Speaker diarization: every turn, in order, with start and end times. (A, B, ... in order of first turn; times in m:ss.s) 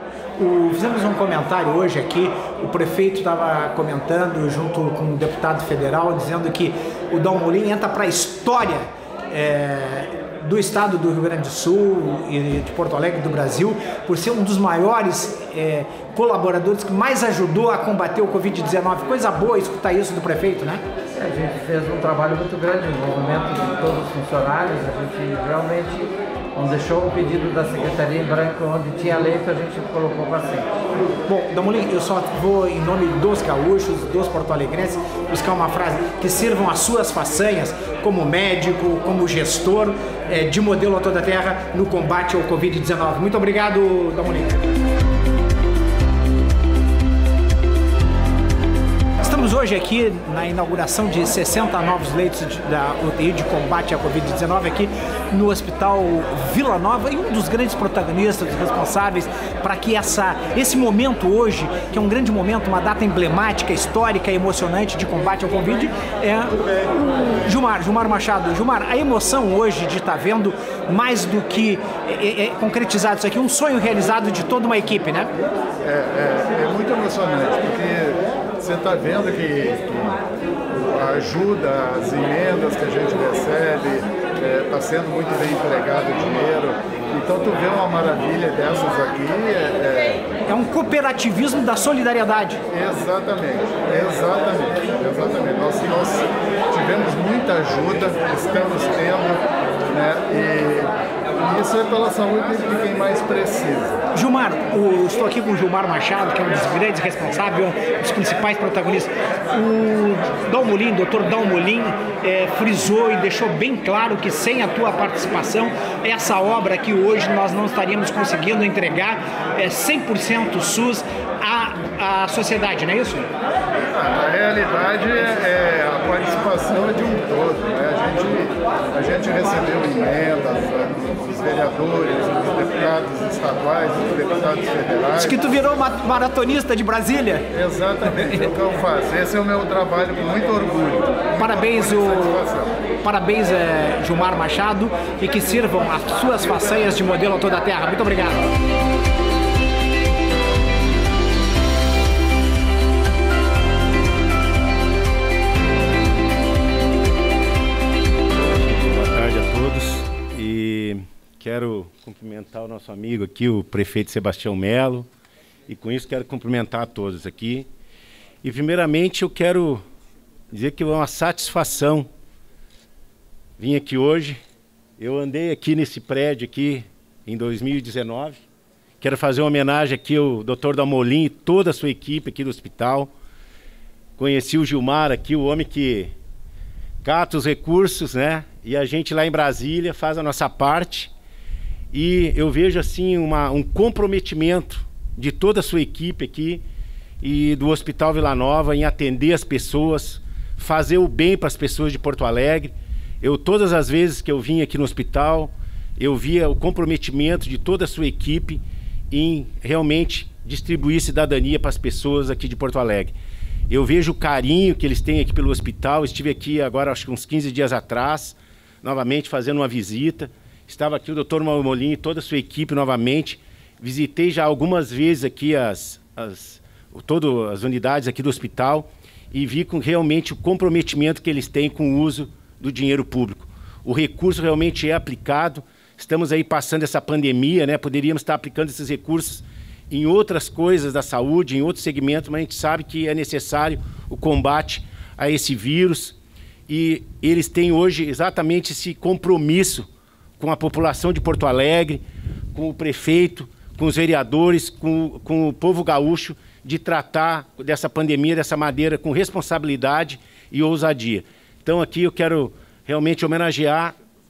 0:00.4-0:20.8 A
0:21.2-0:30.7 B
0:31.2-0:44.6 A
0:49.2-1:15.3 A
1:15.8-1:20.2 C
1:20.7-1:30.3 C
1:30.4-1:32.6 A
1:32.7-1:44.0 C
1:44.1-2:03.3 A
2:03.9-2:15.4 C
2:15.2-2:17.5 A
2:17.5-2:22.8 C
2:21.4-2:22.4 A
2:23.0-2:28.5 A
2:38.3-2:45.1 D
2:45.7-2:47.7 D
2:48.4-2:49.8 D
2:50.5-2:52.1 D
2:53.6-2:54.4 D
2:55.0-2:58.4 D
2:59.0-3:03.1 D
3:04.2-3:06.1 D
3:07.0-3:11.1 D
3:11.9-3:16.6 D
3:17.2-3:33.1 D
3:33.7-4:06.2 D
4:06.7-4:12.0 D
4:12.5-4:23.9 D